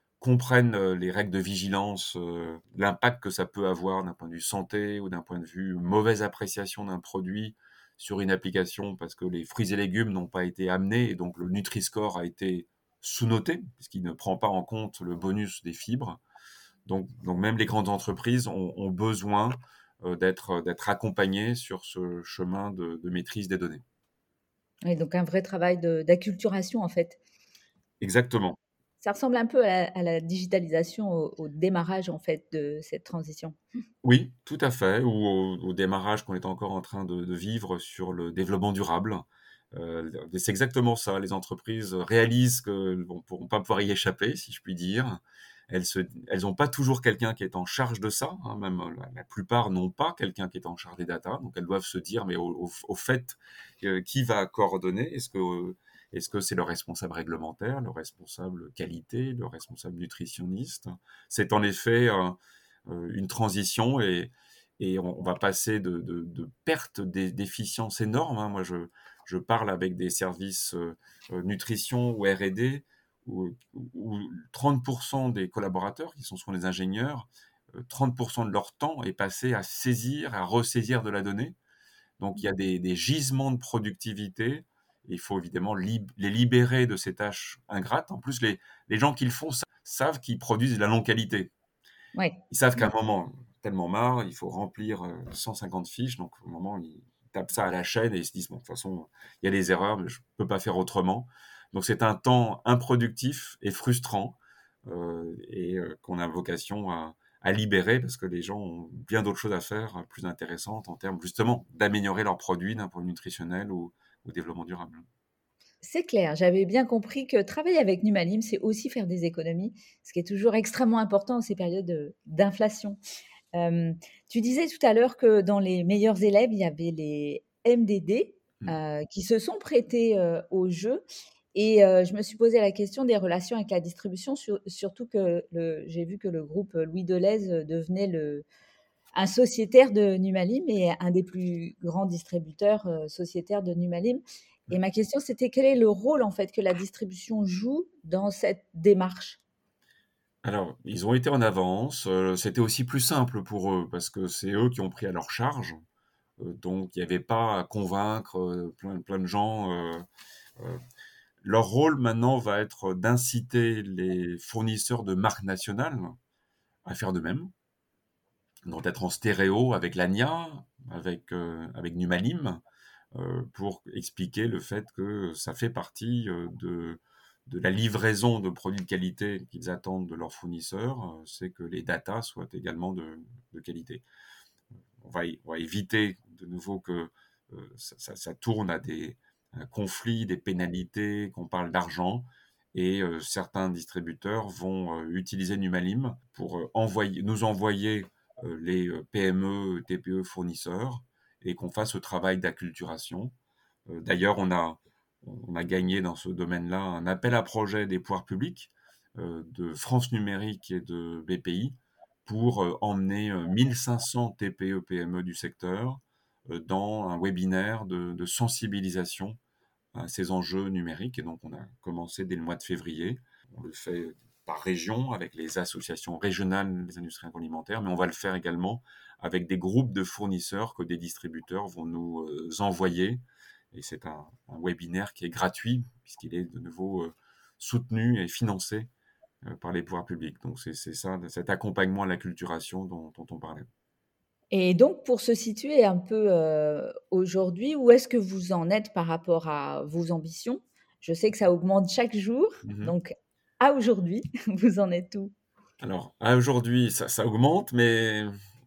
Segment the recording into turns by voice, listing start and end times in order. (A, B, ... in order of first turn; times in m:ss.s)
0:00.2-0:16.2 A
0:16.8-0:23.8 A
0:24.8-0:27.2 B
0:28.0-0:28.6 A
0:29.0-0:33.6 B
0:34.0-1:21.6 A
1:22.2-1:31.5 A
1:32.1-1:32.4 B
1:32.5-1:55.0 A
1:55.8-2:03.0 B
2:03.5-2:11.0 B
2:11.5-2:18.4 B
2:19.1-2:29.4 B
2:30.4-2:35.8 A
2:36.4-2:40.0 A
2:41.4-2:46.1 A
2:46.8-2:47.5 A
2:48.6-2:52.6 A
2:53.1-3:04.0 A
3:05.0-3:23.3 A
3:23.9-3:31.7 A
3:32.2-3:39.4 A
3:39.9-3:58.9 A
3:59.4-4:03.6 A
4:04.5-4:15.3 B
4:12.6-4:12.9 A
4:15.8-4:18.3 A